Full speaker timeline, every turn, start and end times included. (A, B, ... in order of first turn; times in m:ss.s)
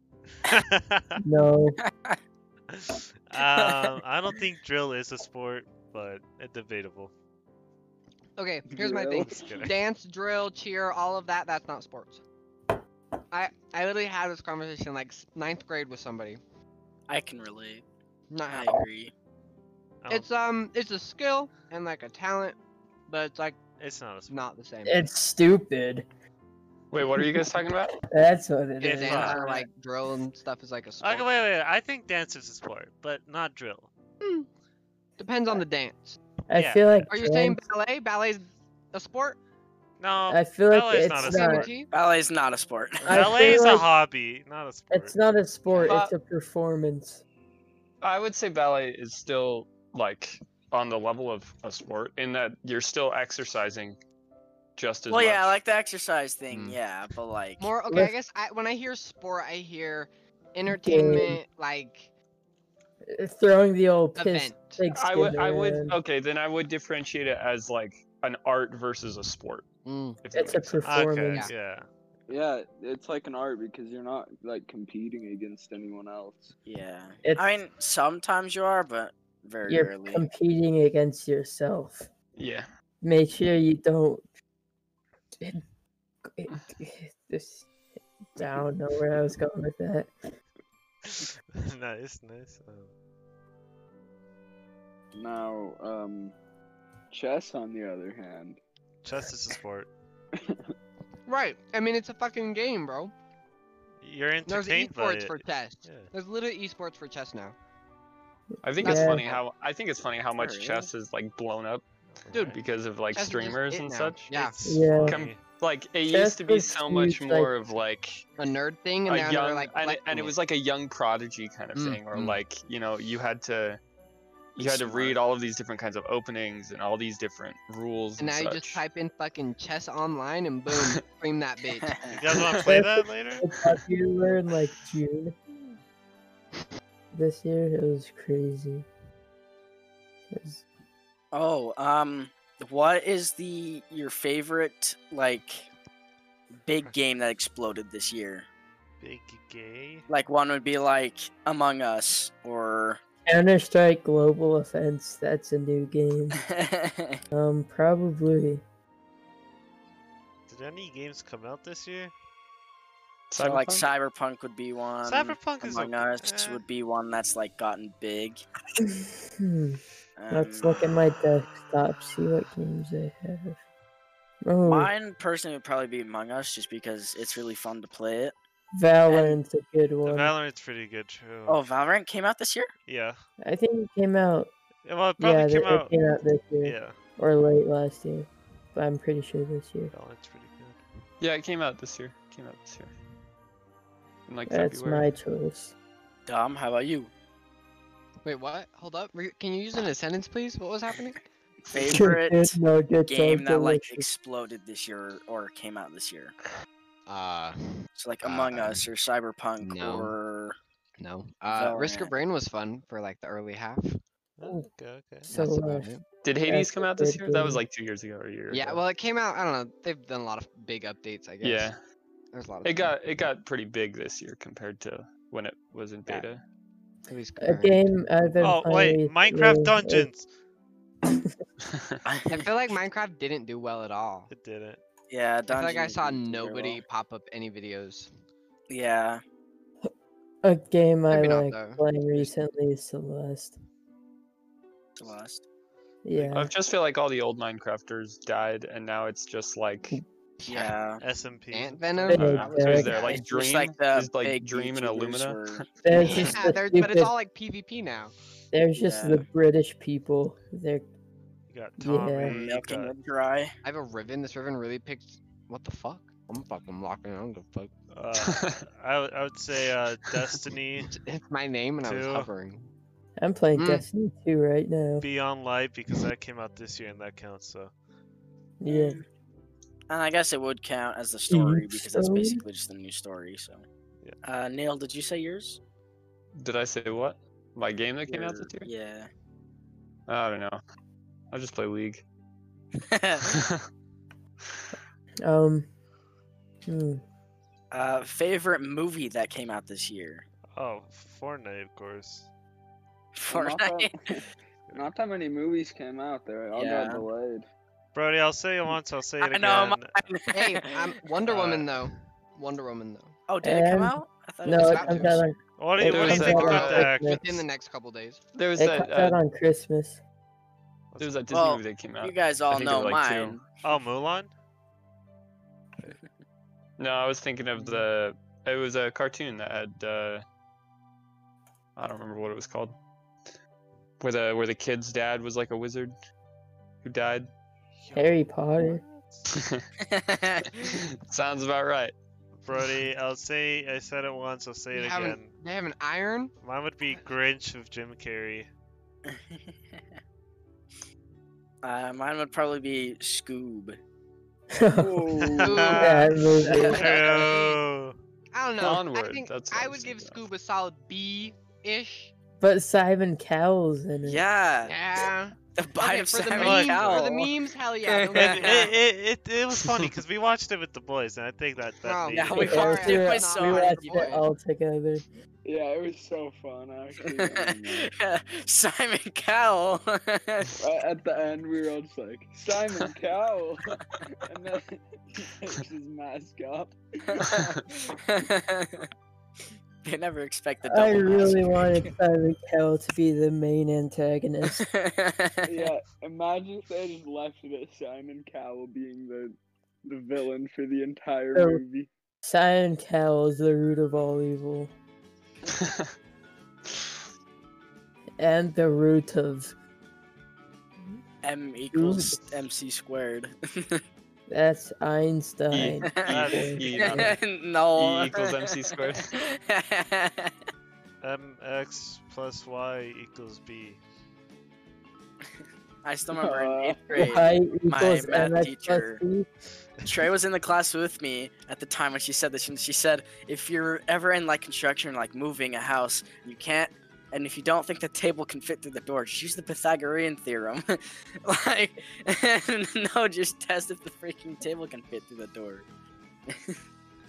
0:00.5-0:01.2 A
0:01.2-0:01.8 B
0:01.8-0:02.2 C
0:02.7-0:07.1 A
0:03.6-0:03.9 C
0:08.4-0:12.2 D
0:08.7-0:09.5 E
0:09.3-0:09.8 A
0:13.3-0:16.4 D
0:17.1-0:17.8 C
0:18.3-0:18.8 D
0:18.5-0:19.1 C
0:20.0-0:20.3 A
0:20.1-0:22.6 D
0:23.1-0:23.6 D
0:23.8-0:24.4 A
0:24.3-0:25.0 D
0:24.9-0:26.1 B
0:26.9-0:28.0 F
0:27.2-0:29.7 B
0:28.8-0:31.3 D
0:28.8-0:29.4 A
0:31.0-0:33.9 A
0:34.2-0:34.5 D
0:35.2-0:36.2 D
0:36.5-0:37.6 B
0:36.6-0:36.8 A
0:37.1-0:39.4 D
0:40.0-0:41.7 A
0:40.3-0:41.7 B
0:41.1-0:41.9 D
0:41.9-0:43.3 C
0:43.0-0:43.9 B
0:43.1-0:45.2 A
0:44.9-0:47.2 B
0:45.8-0:46.1 F
0:48.0-0:54.0 F
0:54.8-0:55.6 F
0:55.1-0:57.7 C
0:57.6-1:02.1 D
1:00.7-1:01.4 B
1:03.1-1:06.0 B
1:04.2-1:04.8 D
1:04.9-1:09.7 F
1:09.8-1:10.2 D
1:10.2-1:11.1 F
1:10.3-1:11.5 B
1:10.8-1:11.9 A
1:12.3-1:16.5 E
1:16.6-1:20.3 C
1:17.2-1:17.5 B
1:19.7-1:22.1 B
1:22.4-1:22.7 F
1:23.0-1:24.3 B
1:26.2-1:27.7 B
1:28.4-1:30.3 B
1:31.1-1:32.9 A
1:35.1-1:36.4 E
1:37.1-1:38.6 E
1:39.0-1:39.9 A
1:40.3-1:40.7 E
1:41.3-1:43.1 D
1:44.0-1:46.1 A
1:44.5-1:47.6 D
1:48.6-1:49.2 B
1:48.6-1:51.8 F
1:48.8-1:49.4 D
1:50.4-1:50.9 C
1:52.1-1:52.6 A
1:52.3-1:52.6 D
1:52.5-1:54.5 F
1:53.1-1:54.6 D
1:54.4-1:55.4 A
1:54.6-1:55.2 B
1:55.1-1:58.3 F
1:56.1-1:57.5 B
1:58.4-2:00.4 D
1:59.1-2:03.8 F
2:01.8-2:02.4 D
2:04.6-2:08.8 F
2:04.6-2:05.2 C
2:08.2-2:12.0 D
2:10.7-2:11.0 F
2:11.8-2:12.2 C
2:12.2-2:13.4 A
2:12.3-2:12.8 F
2:12.6-2:15.4 B
2:17.1-2:18.9 B
2:20.3-2:20.6 B
2:21.3-2:25.7 C
2:26.6-2:28.5 C
2:29.0-2:30.1 A
2:30.1-2:33.0 C
2:33.3-2:36.4 B
2:36.4-2:37.2 C
2:37.3-2:38.6 B
2:40.5-2:42.1 A
2:43.3-2:43.9 F
2:43.4-2:48.4 C
2:45.0-2:46.6 A
2:48.8-2:53.6 B
2:50.2-2:50.9 C
2:54.4-2:54.9 B
2:54.6-2:58.4 C
2:58.7-3:00.3 B
2:59.1-2:59.4 C
3:00.0-3:01.6 A
3:01.5-3:02.7 C
3:02.9-3:03.2 A
3:03.4-3:04.5 B
3:04.9-3:05.9 A
3:05.2-3:09.9 B
3:06.6-3:07.0 A
3:09.9-3:10.8 A
3:11.2-3:12.9 F
3:14.3-3:15.1 F
3:14.5-3:15.7 B
3:16.3-3:17.1 C
3:18.2-3:21.2 D
3:21.7-3:26.3 C
3:21.8-3:24.1 B
3:27.1-3:28.8 D
3:28.0-3:30.6 C
3:29.6-3:30.1 D
3:31.0-3:34.0 D
3:31.5-3:32.1 C
3:34.4-3:35.3 A
3:35.3-3:36.0 D
3:35.3-3:35.9 B
3:36.2-3:38.8 F
3:36.4-3:37.6 B
3:38.5-3:41.7 D
3:41.4-3:41.8 F
3:42.3-3:42.9 D
3:42.6-3:46.4 F
3:47.1-3:47.8 D
3:47.4-3:50.1 B
3:48.4-3:50.3 A
3:51.1-3:51.3 B
3:52.0-3:52.8 C
3:52.3-3:54.3 D
3:54.3-3:54.8 A
3:55.1-3:56.8 C
3:55.5-3:58.1 D
3:58.7-3:59.2 C
4:00.4-4:03.6 B
4:01.1-4:01.8 D
4:05.0-4:05.4 C
4:06.0-4:06.5 B
4:06.2-4:10.0 F
4:10.4-4:10.8 D
4:10.5-4:11.0 C
4:11.0-4:12.9 A
4:11.5-4:13.2 D
4:12.1-4:13.2 B
4:12.1-4:16.1 F
4:12.7-4:15.6 C
4:15.8-4:17.1 B
4:16.0-4:18.1 D
4:18.5-4:20.9 B
4:18.8-4:19.3 C
4:21.5-4:22.9 A
4:21.8-4:22.4 B
4:22.2-4:23.5 C
4:23.6-4:27.7 D
4:27.9-4:31.0 A
4:28.2-4:28.6 F
4:30.8-4:32.7 D
4:31.8-4:32.3 A
4:33.2-4:35.0 B
4:33.6-4:33.8 D
4:35.0-4:37.7 A
4:38.6-4:39.0 B
4:38.7-4:39.0 C
4:39.9-4:43.6 C
4:41.3-4:42.4 B
4:44.2-4:45.6 C
4:46.4-4:48.7 F
4:48.1-4:49.1 C
4:50.1-4:50.6 F
4:51.3-4:52.0 F
4:52.8-4:53.3 C
4:53.2-4:53.7 F
4:55.2-4:55.7 B
4:56.7-4:57.0 B
4:57.7-5:00.2 C
5:00.6-5:02.3 A
5:03.2-5:03.9 C
5:03.3-5:07.5 E
5:06.5-5:07.0 C
5:07.9-5:10.0 A
5:09.2-5:10.7 C
5:10.3-5:13.1 D
5:11.3-5:11.8 A
5:13.3-5:15.2 C
5:13.4-5:17.4 B
5:14.5-5:15.2 D
5:15.6-5:17.2 A
5:15.8-5:16.8 F
5:15.9-5:18.2 D
5:18.3-5:19.2 F
5:18.6-5:20.0 B
5:20.9-5:21.2 A
5:21.0-5:23.4 F
5:21.3-5:23.5 C
5:23.6-5:24.3 A
5:26.8-5:30.2 F
5:31.8-5:32.8 F
5:34.0-5:35.9 F
5:36.8-5:37.3 F
5:37.8-5:39.3 A
5:37.9-5:38.8 B
5:39.3-5:39.6 F
5:39.8-5:40.4 C
5:40.6-5:41.9 F
5:42.4-5:45.3 A
5:44.7-5:46.3 D
5:46.4-5:48.5 A
5:49.1-5:49.8 C
5:51.6-5:53.8 C
5:54.5-5:55.2 B
5:54.8-5:56.0 E
5:55.3-5:58.0 A
5:55.4-5:57.6 D
5:55.7-5:57.0 B
5:56.7-5:57.1 C
5:58.3-6:02.1 D
5:58.6-6:00.2 F
6:02.4-6:04.2 B
6:04.1-6:07.3 C
6:04.7-6:08.8 D
6:06.4-6:07.1 A
6:07.8-6:08.7 C
6:08.2-6:12.8 A
6:11.8-6:14.3 D
6:12.1-6:14.0 C
6:12.4-6:15.0 B
6:15.4-6:17.9 E
6:17.2-6:20.5 C
6:20.6-6:27.5 E
6:27.2-6:28.8 C
6:29.8-6:31.9 C
6:30.7-6:34.6 B
6:34.5-6:35.7 C
6:35.5-6:39.4 E
6:39.9-6:41.9 E
6:41.3-6:41.6 B
6:42.2-6:44.7 B
6:45.5-6:45.9 F
6:48.2-6:49.6 B
6:51.2-6:53.8 C
6:51.7-6:52.4 B
6:54.3-6:57.1 B
6:55.5-6:57.2 F
6:56.1-6:57.0 A
6:56.8-7:00.3 C
6:57.8-6:59.2 F
7:01.0-7:03.8 A
7:05.8-7:09.0 C
7:06.2-7:06.8 E
7:06.2-7:09.3 B
7:09.8-7:25.7 C
7:26.3-7:26.6 C